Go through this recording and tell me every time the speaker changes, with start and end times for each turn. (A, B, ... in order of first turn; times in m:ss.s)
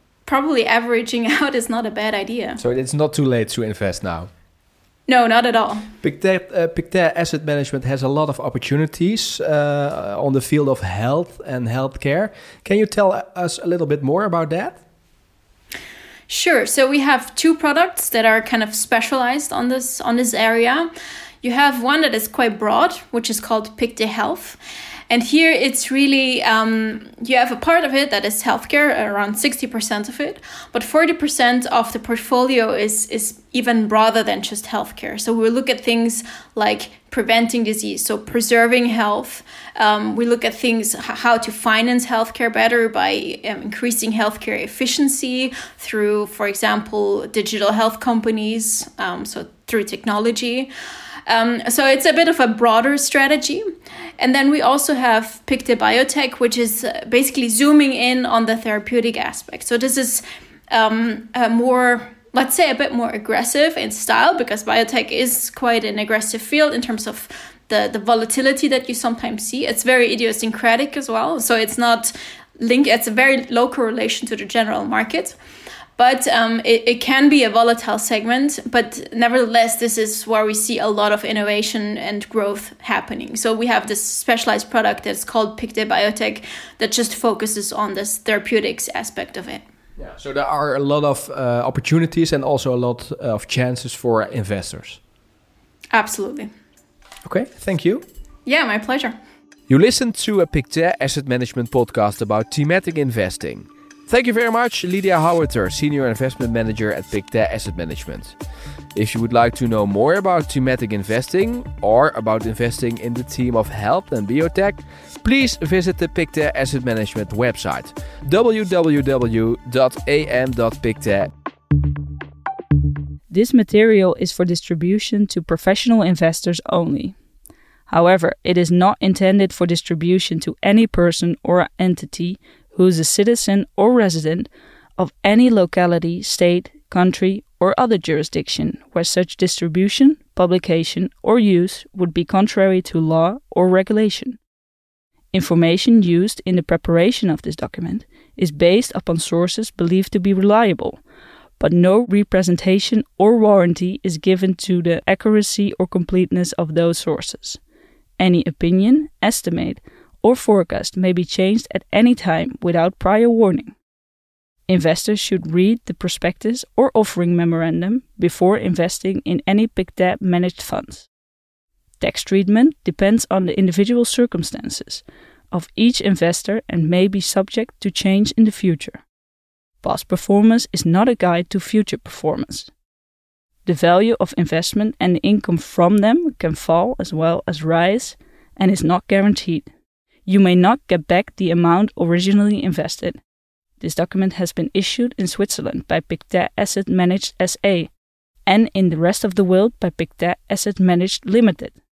0:00.2-0:02.6 A
0:02.6-0:04.3 B
0:05.1-0:05.9 A
0:06.0-0:14.8 B
0:16.3-0:20.9 A
0:21.4-0:24.6 A
0:25.1-0:50.7 A
0:51.3-0:53.6 A
0:54.2-1:15.3 A
1:16.0-1:29.6 A
1:30.0-1:35.0 B
1:35.9-1:36.5 A
1:37.2-1:38.0 B
1:38.4-1:39.1 A
1:39.7-1:48.3 B
1:48.9-2:01.3 B
2:03.3-2:07.1 C
2:07.9-2:24.4 C
2:25.3-2:31.0 C
2:31.6-2:37.6 C
2:38.2-2:43.7 C
2:44.7-2:51.1 C
2:52.0-2:59.0 C
2:59.8-3:02.7 C
3:03.6-3:09.7 C
3:10.2-3:13.2 C
3:13.8-3:17.9 C
3:18.4-3:21.7 C